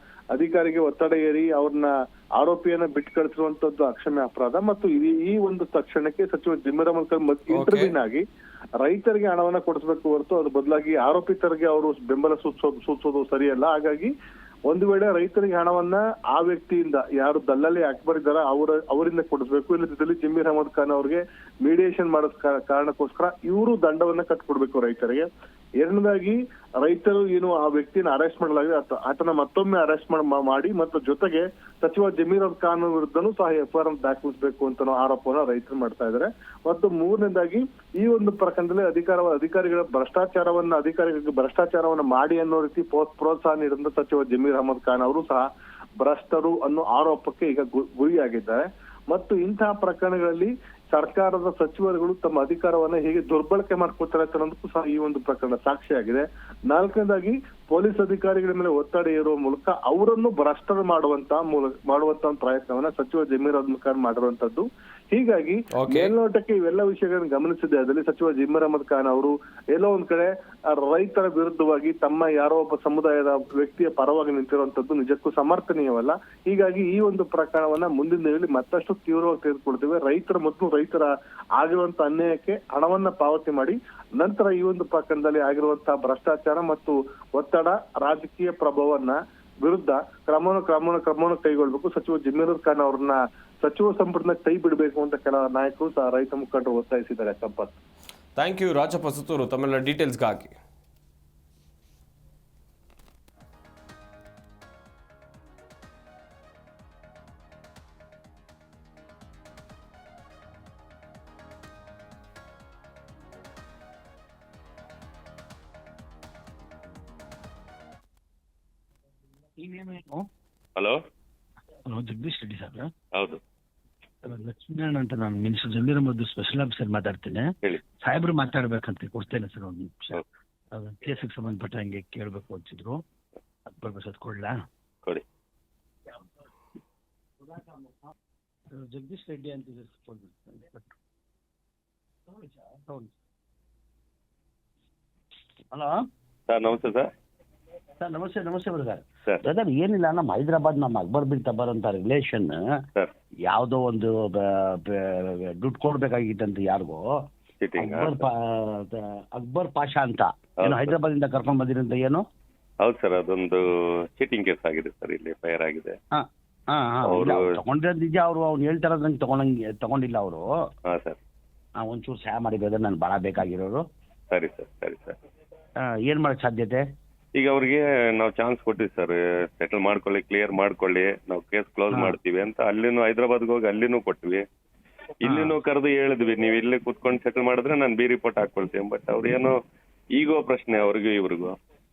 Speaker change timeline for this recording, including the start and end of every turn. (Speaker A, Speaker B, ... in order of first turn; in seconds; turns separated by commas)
Speaker A: 0.3-8.2, Speaker B: 7.5-7.9, Speaker A: 8.8-14.1, Speaker A: 14.7-25.3, Speaker A: 25.8-45.4, Speaker A: 46.0-97.7, Speaker B: 65.8-66.1, Speaker B: 98.4-100.5, Speaker C: 119.6-120.3, Speaker C: 121.9-122.9, Speaker D: 123.1-123.4, Speaker C: 124.2-133.0, Speaker C: 133.7-134.6, Speaker C: 137.5-138.1, Speaker C: 138.7-140.9, Speaker C: 142.3-143.2, Speaker C: 145.7-146.0, Speaker D: 146.5-147.1, Speaker C: 148.0-152.6, Speaker C: 153.5-157.0, Speaker D: 157.6-158.2, Speaker C: 157.8-162.2, Speaker D: 160.6-161.0, Speaker D: 162.8-163.6, Speaker D: 164.2-165.9, Speaker C: 166.2-170.5, Speaker D: 167.0-167.4, Speaker D: 170.9-171.2, Speaker C: 171.8-173.8, Speaker D: 174.3-175.2, Speaker C: 175.8-176.8, Speaker D: 177.4-184.4, Speaker C: 181.9-182.2, Speaker D: 185.2-189.6, Speaker C: 185.3-185.6, Speaker D: 190.2-191.6